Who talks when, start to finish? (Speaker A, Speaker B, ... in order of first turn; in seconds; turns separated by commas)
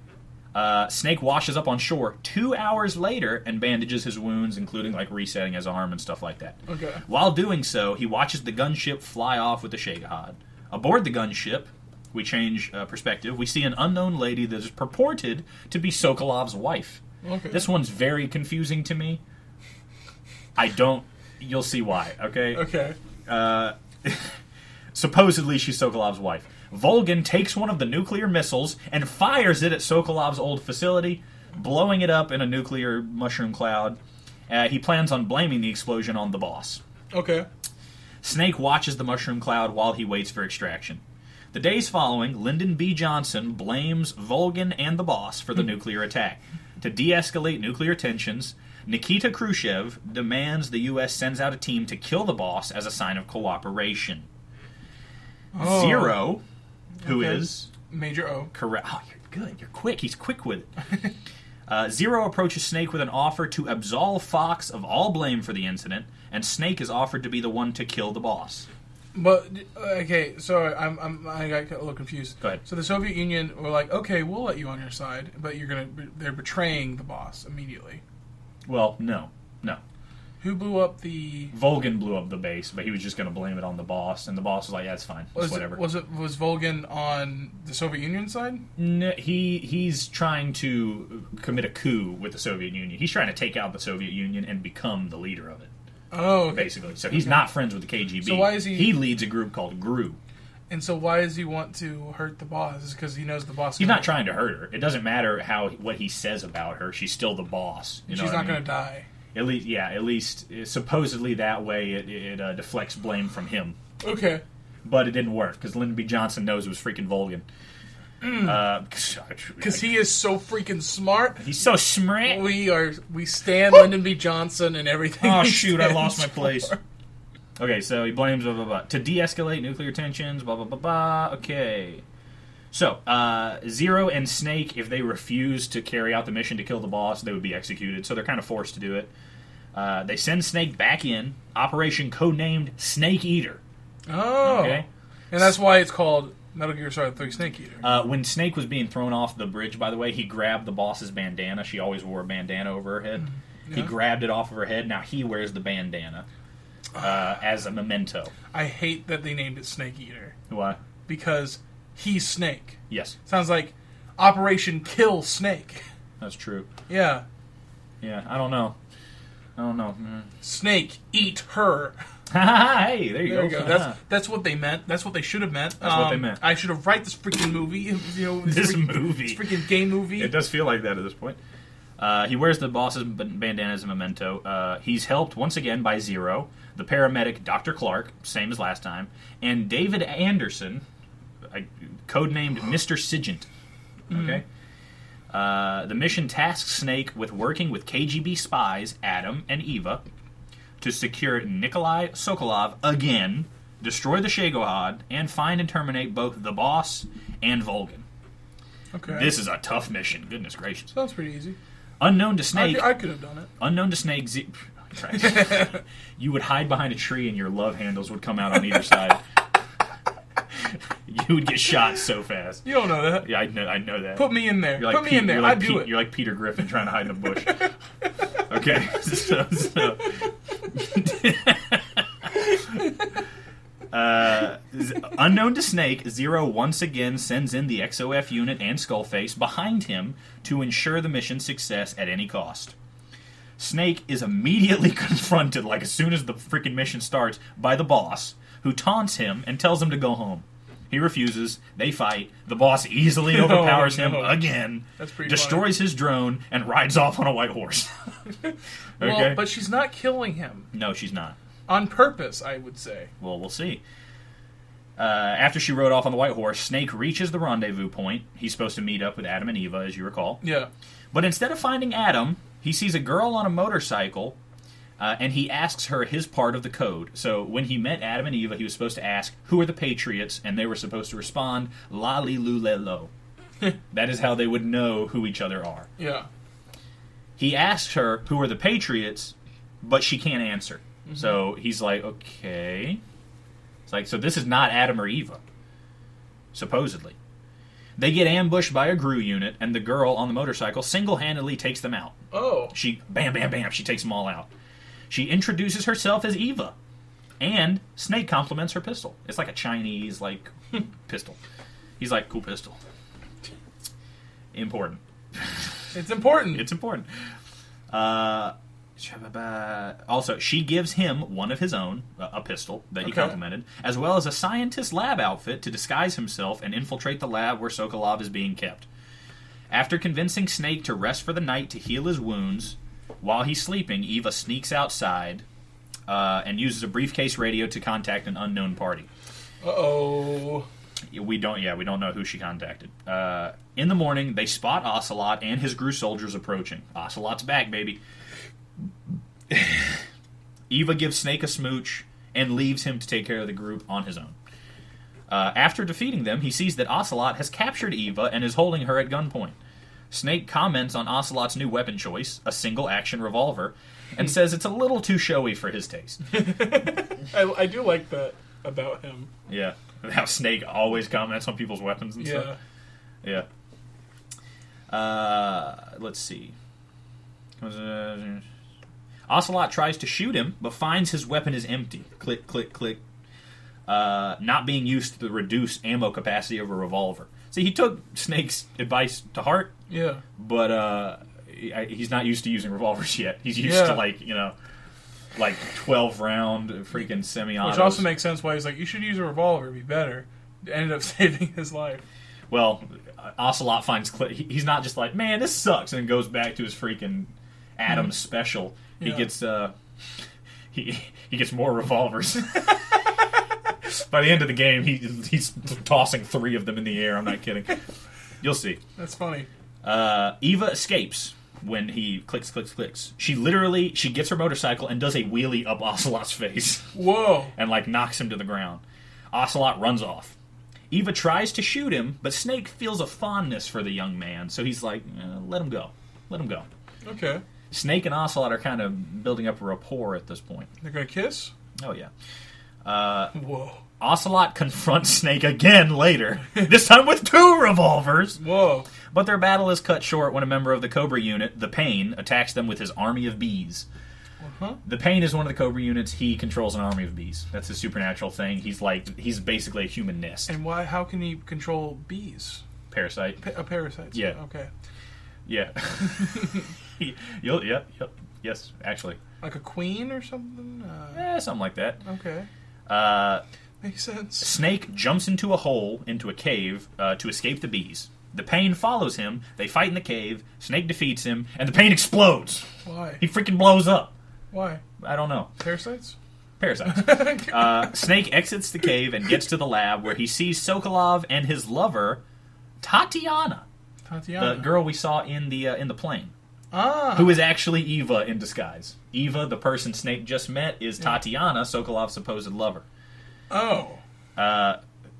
Speaker A: 0.5-19.2, Speaker B: 6.7-7.0, Speaker B: 17.2-17.6, Speaker A: 20.6-22.7, Speaker B: 22.5-23.0, Speaker A: 23.3-24.3, Speaker A: 24.9-34.0, Speaker A: 34.5-36.8, Speaker B: 37.1-37.5, Speaker A: 38.2-41.0, Speaker A: 41.5-54.3, Speaker B: 55.5-56.2, Speaker A: 55.6-56.4, Speaker B: 57.0-58.5, Speaker A: 57.0-57.7, Speaker A: 58.5-60.7, Speaker A: 61.7-68.7, Speaker B: 69.1-78.0, Speaker A: 78.6-79.8, Speaker B: 80.4-81.5, Speaker A: 81.5-85.8, Speaker B: 85.3-88.6, Speaker A: 88.8-95.7, Speaker B: 96.1-97.4, Speaker A: 96.5-100.2, Speaker B: 98.2-99.0, Speaker B: 100.7-104.1, Speaker A: 103.8-108.6, Speaker B: 108.1-109.1, Speaker A: 109.3-113.8, Speaker B: 114.0-114.4, Speaker A: 114.8-117.4, Speaker B: 118.2-118.6, Speaker A: 118.3-119.9, Speaker B: 119.6-121.4, Speaker A: 121.4-122.5, Speaker B: 122.2-126.8, Speaker A: 125.2-126.7, Speaker A: 127.6-132.0, Speaker A: 132.7-139.1, Speaker A: 139.7-143.6, Speaker B: 144.1-147.8, Speaker A: 144.4-144.8, Speaker A: 147.8-156.2, Speaker B: 153.7-153.9, Speaker A: 157.0-158.3, Speaker B: 158.5-160.3, Speaker A: 160.5-160.8, Speaker B: 161.1-165.8, Speaker A: 162.9-163.2, Speaker A: 166.2-166.7, Speaker B: 166.9-167.2, Speaker A: 168.0-168.8, Speaker A: 169.6-170.3, Speaker B: 170.4-172.0, Speaker A: 172.3-173.9, Speaker B: 173.2-180.3, Speaker A: 175.8-176.4, Speaker A: 178.5-179.5, Speaker A: 180.2-181.4, Speaker A: 182.0-190.8, Speaker A: 191.5-193.5, Speaker A: 194.1-194.4, Speaker B: 194.1-194.4, Speaker A: 195.3-200.0, Speaker A: 200.8-208.0, Speaker B: 208.9-209.3, Speaker A: 209.1-210.9, Speaker B: 210.9-211.6, Speaker A: 212.0-212.9, Speaker B: 212.5-213.5, Speaker A: 213.6-219.2, Speaker B: 215.2-215.7, Speaker A: 220.6-222.6, Speaker B: 222.6-223.3, Speaker A: 223.2-227.7, Speaker B: 224.1-225.9, Speaker A: 228.5-232.8, Speaker A: 233.9-242.7, Speaker A: 243.6-257.9, Speaker B: 253.2-254.4, Speaker B: 255.0-255.7, Speaker A: 259.0-259.4, Speaker B: 259.0-260.7, Speaker A: 260.7-261.4, Speaker B: 261.7-263.1, Speaker A: 263.2-263.8, Speaker A: 265.0-270.4, Speaker B: 270.4-270.7, Speaker A: 271.1-274.4, Speaker A: 275.0-283.1, Speaker A: 283.9-285.9, Speaker B: 286.0-286.3, Speaker A: 287.4-293.0, Speaker B: 291.1-291.4, Speaker A: 293.9-295.4, Speaker A: 296.5-297.1, Speaker A: 298.0-302.1, Speaker B: 302.3-302.7, Speaker A: 302.7-304.5, Speaker A: 305.1-306.7, Speaker A: 307.4-311.4, Speaker A: 312.0-312.8, Speaker A: 314.5-315.6, Speaker B: 315.9-316.7, Speaker A: 316.5-317.1, Speaker A: 317.9-328.9, Speaker B: 323.0-323.4, Speaker A: 329.7-335.4, Speaker A: 336.1-339.1, Speaker B: 339.6-340.7, Speaker A: 341.1-348.0, Speaker A: 349.5-350.0, Speaker A: 350.7-354.4, Speaker A: 355.3-359.6, Speaker A: 360.1-366.2, Speaker B: 366.3-369.3, Speaker A: 369.5-372.5, Speaker B: 372.2-372.6, Speaker A: 374.9-376.5, Speaker A: 377.6-378.4, Speaker A: 379.3-383.0, Speaker A: 383.9-389.7, Speaker B: 389.9-390.2, Speaker A: 390.4-394.5, Speaker B: 393.6-394.0, Speaker A: 395.3-398.1, Speaker B: 397.6-402.0, Speaker A: 402.5-409.7, Speaker B: 409.0-409.3, Speaker A: 410.7-413.0, Speaker A: 413.8-417.8, Speaker A: 418.4-418.8, Speaker B: 419.0-419.5, Speaker A: 419.8-426.9, Speaker B: 426.9-427.5, Speaker A: 427.5-430.4, Speaker A: 430.9-436.6, Speaker B: 437.0-437.4, Speaker A: 437.7-440.7, Speaker B: 440.8-441.5, Speaker A: 441.8-442.1, Speaker A: 442.8-443.3, Speaker B: 443.3-443.8, Speaker A: 444.0-448.4, Speaker B: 448.4-448.9, Speaker A: 449.1-453.9, Speaker B: 454.4-454.8, Speaker A: 454.8-460.5, Speaker B: 460.5-462.6, Speaker A: 462.9-463.4, Speaker B: 463.4-464.7, Speaker A: 464.1-464.4, Speaker A: 465.4-469.2, Speaker B: 469.4-471.3, Speaker A: 471.1-472.0, Speaker B: 472.0-472.5, Speaker A: 472.9-473.4, Speaker B: 473.8-474.5, Speaker A: 474.4-482.7, Speaker B: 482.8-483.2, Speaker A: 483.2-484.1, Speaker B: 484.5-484.8, Speaker A: 485.0-485.5, Speaker B: 485.6-486.1, Speaker A: 486.6-492.2, Speaker B: 486.9-487.9, Speaker A: 492.8-493.6, Speaker B: 494.1-494.7, Speaker A: 494.4-496.3, Speaker B: 496.7-497.4, Speaker A: 497.1-502.8, Speaker B: 503.5-504.0, Speaker A: 504.4-504.8